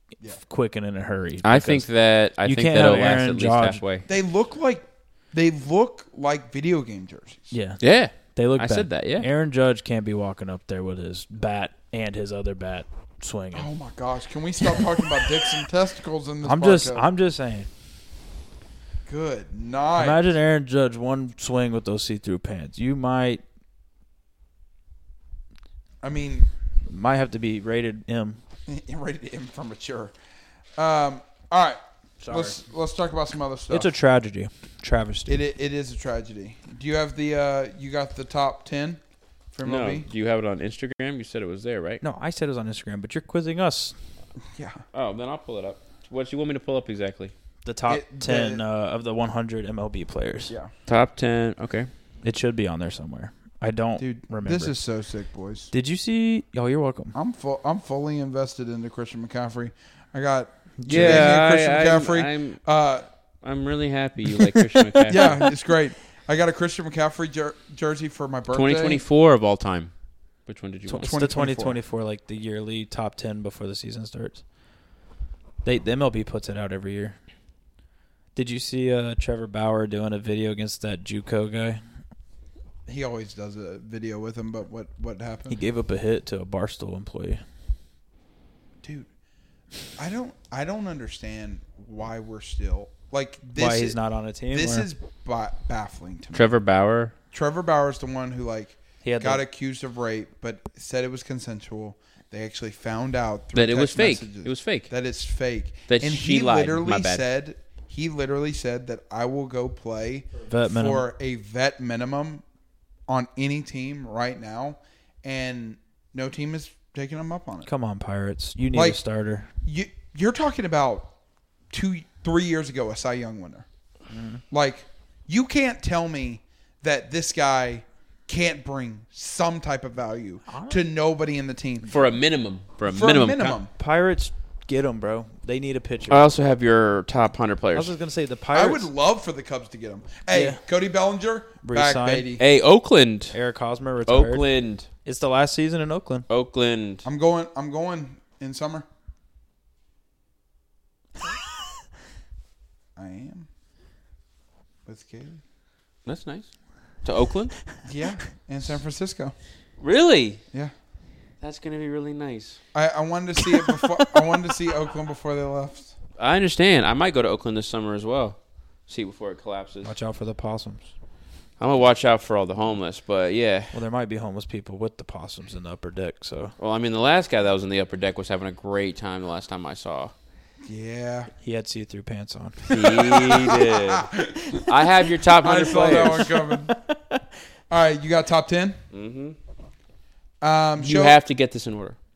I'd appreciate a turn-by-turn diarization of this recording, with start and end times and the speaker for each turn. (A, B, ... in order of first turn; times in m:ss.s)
0:00.3-0:01.9 A
0:01.4-0:04.1 B
0:02.4-0:03.8 A
0:04.1-0:07.6 C
0:07.5-0:13.7 A
0:07.8-0:09.3 B
0:13.5-0:17.1 C
0:16.4-0:17.7 A
0:19.1-0:20.3 C
0:20.0-0:23.4 A
0:26.0-0:26.5 C
0:26.9-0:28.4 A
0:28.7-0:30.2 C
0:30.8-0:33.9 C
0:32.2-0:32.6 A
0:33.7-0:35.4 A
0:35.3-0:39.0 C
0:39.5-0:40.1 C
0:39.6-0:42.0 B
0:42.0-0:44.0 A
0:44.5-0:44.8 C
0:44.9-0:47.3 B
0:47.6-0:50.5 A
0:47.9-0:48.6 C
0:50.9-0:51.9 B
0:52.2-0:54.8 A
0:54.0-0:55.7 C
0:55.7-0:57.2 A
0:57.1-1:03.1 C
1:00.8-1:01.4 A
1:00.9-1:02.6 B
1:03.4-1:05.5 B
1:05.0-1:05.5 A
1:05.1-1:09.0 C
1:08.5-1:09.9 B
1:10.5-1:11.1 B
1:10.9-1:14.4 A
1:11.0-1:11.8 C
1:15.6-1:17.2 A
1:18.4-1:21.8 A
1:22.9-1:25.6 C
1:25.5-1:27.4 A
1:28.8-1:29.1 C
1:30.0-1:34.0 C
1:33.6-1:34.9 A
1:34.5-1:36.5 C
1:36.3-1:37.1 B
1:37.3-1:52.4 C
1:39.0-1:39.4 A
1:43.5-1:44.9 B
1:45.9-1:47.2 B
1:50.5-1:51.1 A
1:53.1-1:57.7 C
1:57.7-1:59.5 A
1:58.7-1:59.0 C
1:59.6-2:01.1 C
2:01.7-2:03.7 C
2:04.1-2:04.4 A
2:04.5-2:11.9 C
2:10.5-2:10.8 A
2:11.9-2:13.6 B
2:12.8-2:13.7 C
2:13.8-2:16.3 A
2:16.1-2:17.9 B
2:17.8-2:18.9 A
2:18.5-2:22.4 C
2:20.3-2:20.6 A
2:21.6-2:22.3 A
2:22.4-2:23.4 B
2:23.3-2:24.4 A
2:24.1-2:24.9 B
2:25.0-2:26.3 A
2:26.3-2:27.1 B
2:27.0-2:28.9 C
2:33.0-2:33.5 C
2:34.9-2:35.4 C
2:36.1-2:36.5 B
2:37.0-2:37.6 B
2:37.8-2:39.4 C
2:39.8-2:40.4 B
2:41.4-2:42.6 B
2:42.7-2:46.0 C
2:46.2-2:49.9 B
2:49.8-2:50.9 A
2:51.6-2:53.8 B
2:53.7-2:56.5 A
2:56.6-3:00.1 B
3:00.6-3:01.3 C
3:01.4-3:03.1 A
3:02.7-3:06.3 B
3:02.7-3:06.8 C
3:05.8-3:07.2 A
3:07.7-3:08.8 C
3:08.9-3:09.4 B
3:10.4-3:11.2 C
3:10.8-3:12.0 B